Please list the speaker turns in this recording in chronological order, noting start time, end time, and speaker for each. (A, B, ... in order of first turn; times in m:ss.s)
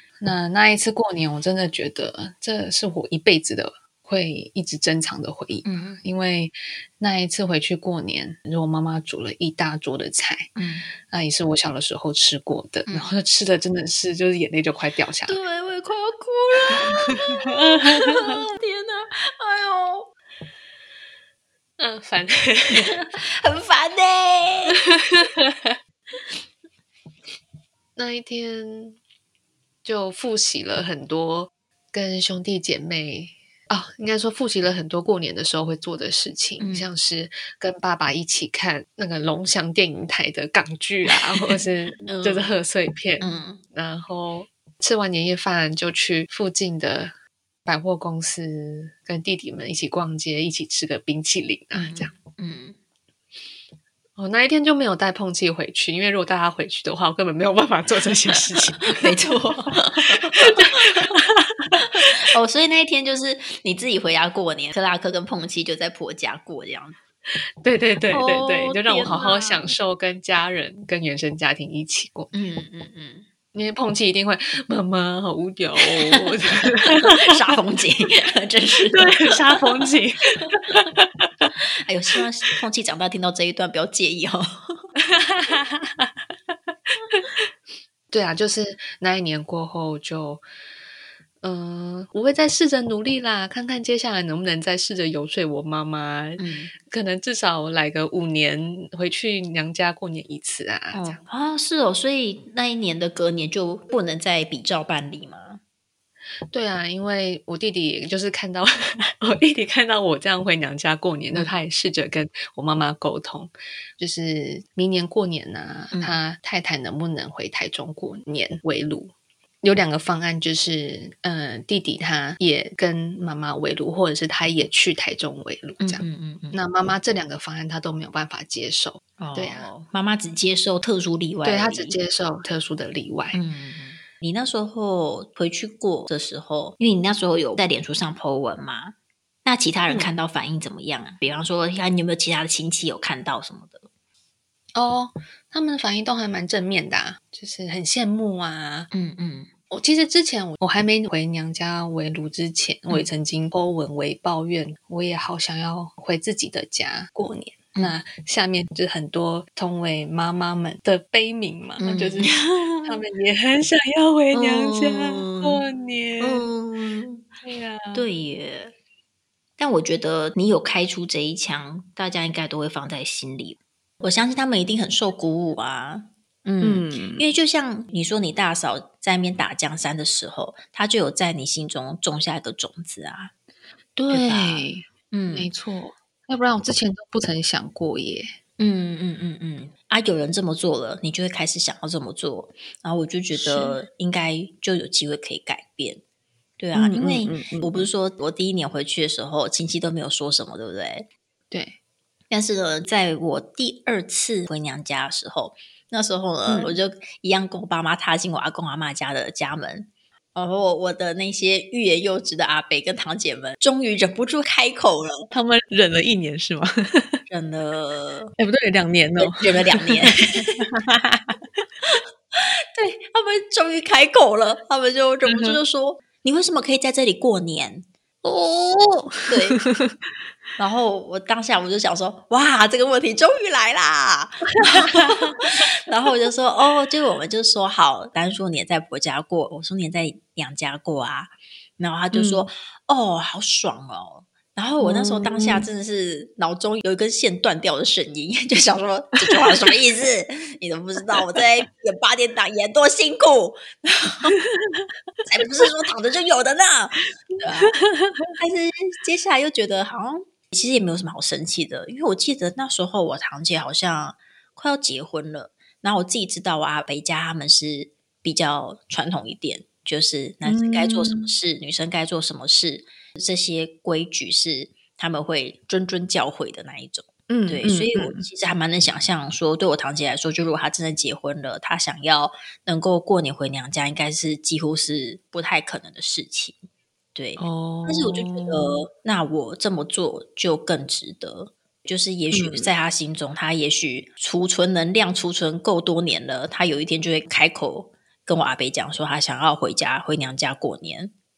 0:00.2-0:10.5 A
0:05.6-0:06.0 B
0:10.6-0:10.9 B
0:11.0-0:15.4 A
0:12.9-0:13.1 B
0:15.3-0:20.1 B
0:17.0-0:18.3 A
0:21.8-0:23.0 A
0:22.7-0:24.8 B
0:25.1-0:25.8 A
0:28.0-0:29.0 A
0:29.8-0:47.2 A
0:36.6-0:36.9 B
0:42.0-0:42.5 B
0:43.2-0:43.6 B
0:47.7-0:52.2 A
0:51.7-0:52.8 B
0:54.2-0:59.2 A
0:58.9-1:00.9 B
1:00.2-1:02.1 A
1:01.9-1:07.0 B
1:07.6-1:12.3 A
1:08.1-1:09.7 B
1:12.3-1:13.2 B
1:13.5-1:17.3 A
1:16.0-1:16.3 B
1:17.0-1:19.7 B
1:18.9-1:21.3 A
1:21.9-1:24.8 B
1:25.1-1:26.1 A
1:27.1-1:27.5 A
1:28.1-1:30.4 A
1:31.4-1:41.2 A
1:36.4-1:36.7 B
1:40.9-1:45.6 B
1:46.5-2:09.7 A
1:55.9-1:56.2 B
2:05.8-2:06.6 B
2:09.2-2:12.0 B
2:11.4-2:13.4 A
2:13.3-2:23.9 B
2:24.8-2:28.9 A
2:28.9-2:29.5 B
2:29.7-2:46.5 A
2:41.8-2:43.0 B
2:44.3-2:45.6 B
2:46.2-2:47.3 B
2:47.4-2:48.0 A
2:47.9-2:48.7 B
2:49.6-3:03.3 B
2:56.6-2:57.2 A
3:04.0-3:08.3 A
3:04.1-3:05.5 B
3:08.6-3:16.0 B
3:13.3-3:13.8 A
3:16.6-3:21.1 B
3:16.7-3:17.9 A
3:21.5-3:21.8 A
3:22.3-3:35.3 B
3:26.5-3:26.8 A
3:35.3-3:37.2 A
3:37.3-3:38.3 B
3:38.4-3:41.4 A
3:39.2-3:40.7 B
3:41.9-3:47.9 B
3:45.3-3:45.6 A
3:48.2-3:50.0 A
3:49.3-3:49.6 B
3:50.6-4:14.4 B
3:54.7-3:55.3 A
4:02.1-4:02.5 A
4:04.8-4:05.7 A
4:14.4-4:14.9 A
4:15.3-4:17.7 B
4:17.6-4:18.3 A
4:18.4-4:46.6 B
4:30.4-4:31.3 A
4:37.3-4:38.2 A
4:47.2-5:01.1 B
4:47.4-4:48.8 A
4:52.3-4:52.7 A